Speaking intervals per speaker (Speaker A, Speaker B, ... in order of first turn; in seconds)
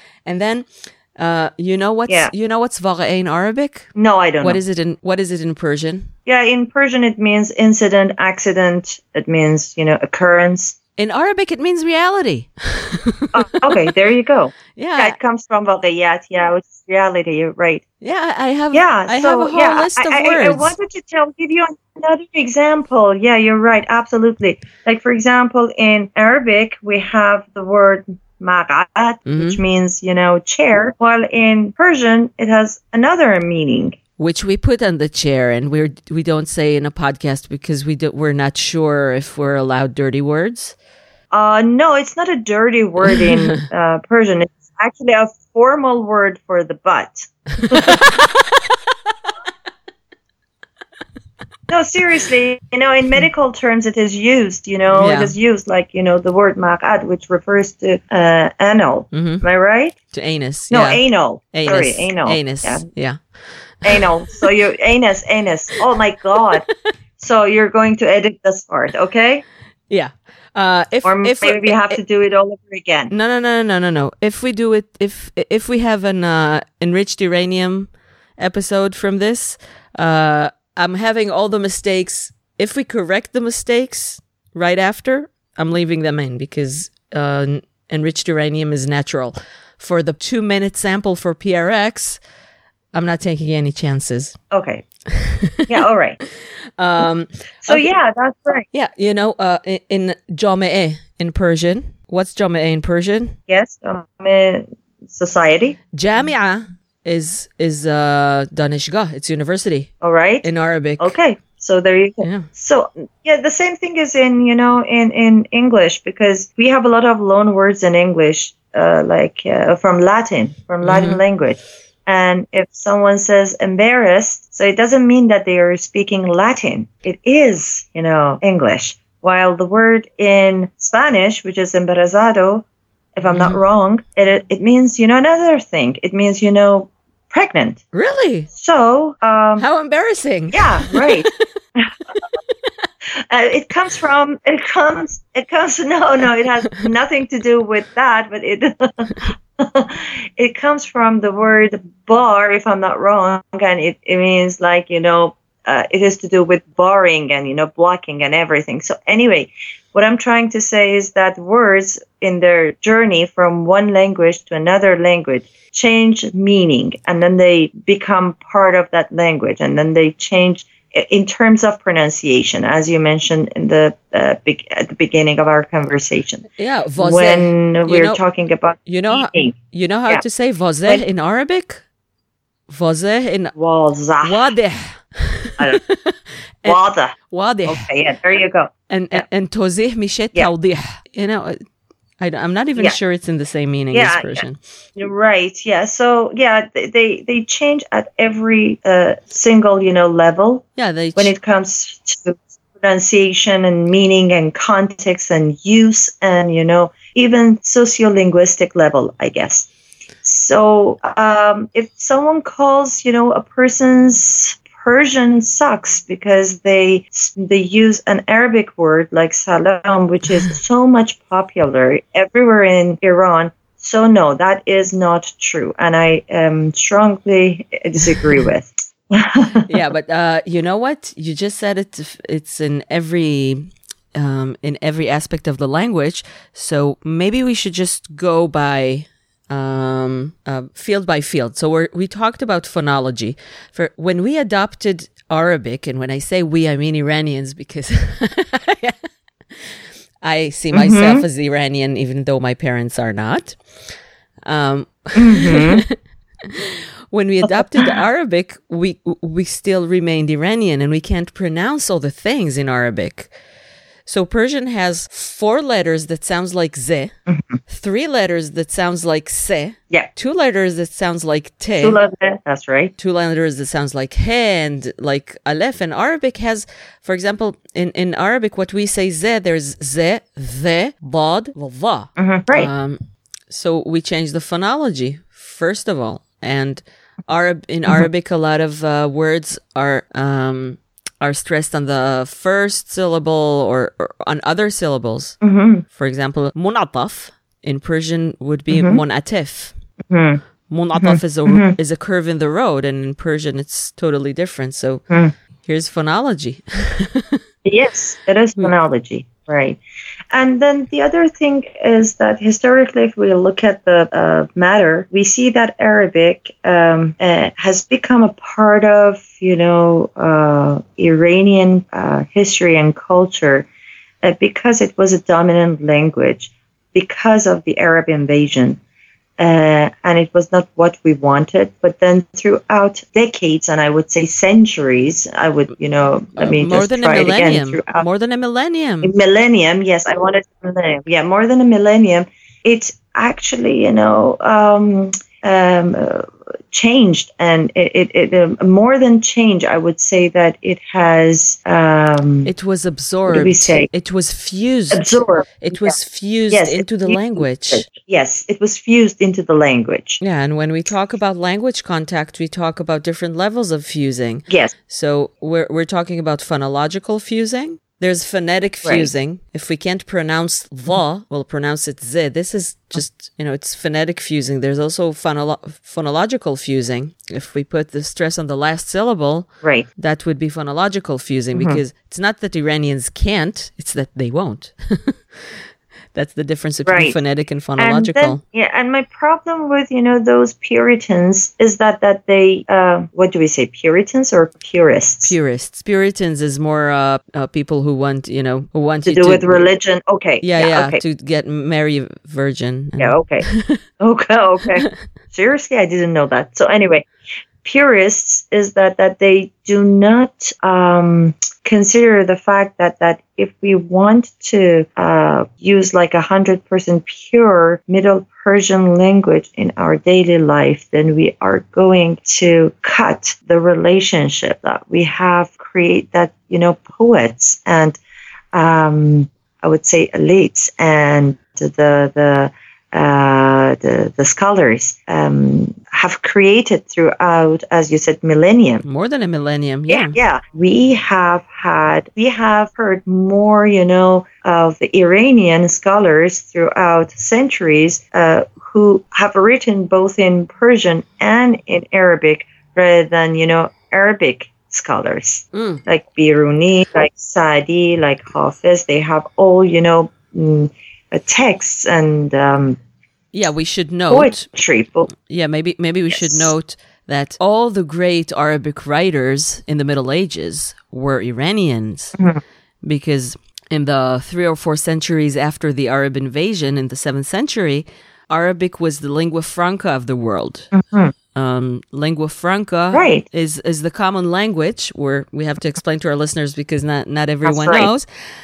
Speaker A: 0.3-3.9, 4.4-6.1, 11.0-13.8, 14.8-15.2, 18.0-20.8, 29.3-29.6, 34.2-40.8, 43.2-43.6, 47.6-48.5, 54.9-55.4, 59.1-59.4, 60.1-63.2, 69.9-72.0, 73.1-92.2, 92.9-94.4, 95.1-95.7, 96.8-97.9, 98.7-103.4, 105.9-109.9, 110.4-111.2, 112.2-112.5, 120.8-121.2, 133.3-133.6, 137.9-138.5, 139.6-141.3, 176.6-178.2, 178.9-181.8, 182.7-183.5, 184.2-187.9, 188.9-191.6, 192.2-194.6, 200.8-201.3, 229.7-249.0, 250.2-253.6, 254.5-263.3, 264.1-267.1, 267.7-272.0, 273.0-299.7, 300.7-305.0, 305.6-307.4, 336.4-339.1, 352.4-357.9, 360.2-385.6, 386.1-388.4, 395.2-399.7, 400.4-403.8, 438.8-440.2, 455.5-455.8, 463.3-464.4, 465.3-472.2, 472.8-480.7, 481.4-488.1
Speaker B: 2.1-2.3, 4.0-4.6, 6.3-10.8, 13.3-17.8, 18.7-34.0, 41.3-48.0, 51.7-60.0, 60.7-62.9, 63.9-66.7, 67.2-69.4, 71.0-73.1, 94.5-94.8, 95.7-96.2, 97.6-98.7, 103.5-105.8, 110.0-110.5, 111.0-132.7, 133.2-137.8, 138.5-139.7, 140.5-141.9, 143.3-176.5, 177.0-179.6, 183.6-184.5, 186.7-187.2, 187.7-189.2, 193.9-194.4, 195.0-209.7, 210.2-229.7, 250.7-251.2, 255.2-255.8, 267.3-267.6, 271.8-272.9, 282.2-282.7, 295.4-295.8, 298.7-299.0, 300.1-300.4, 301.0-301.8, 307.6-309.8, 310.3-323.7, 324.2-328.8, 329.4-338.1, 339.0-352.5, 353.3-353.9, 354.9-356.0, 356.5-360.2, 364.5-364.7, 379.6-379.9, 381.6-381.8, 386.9-387.2, 387.8-395.3, 399.1-401.0, 403.0-407.1, 407.6-428.0, 428.5-438.8, 439.9-462.8, 464.1-465.1, 466.1-466.5, 480.7-481.1, 482.9-483.2, 487.4-487.9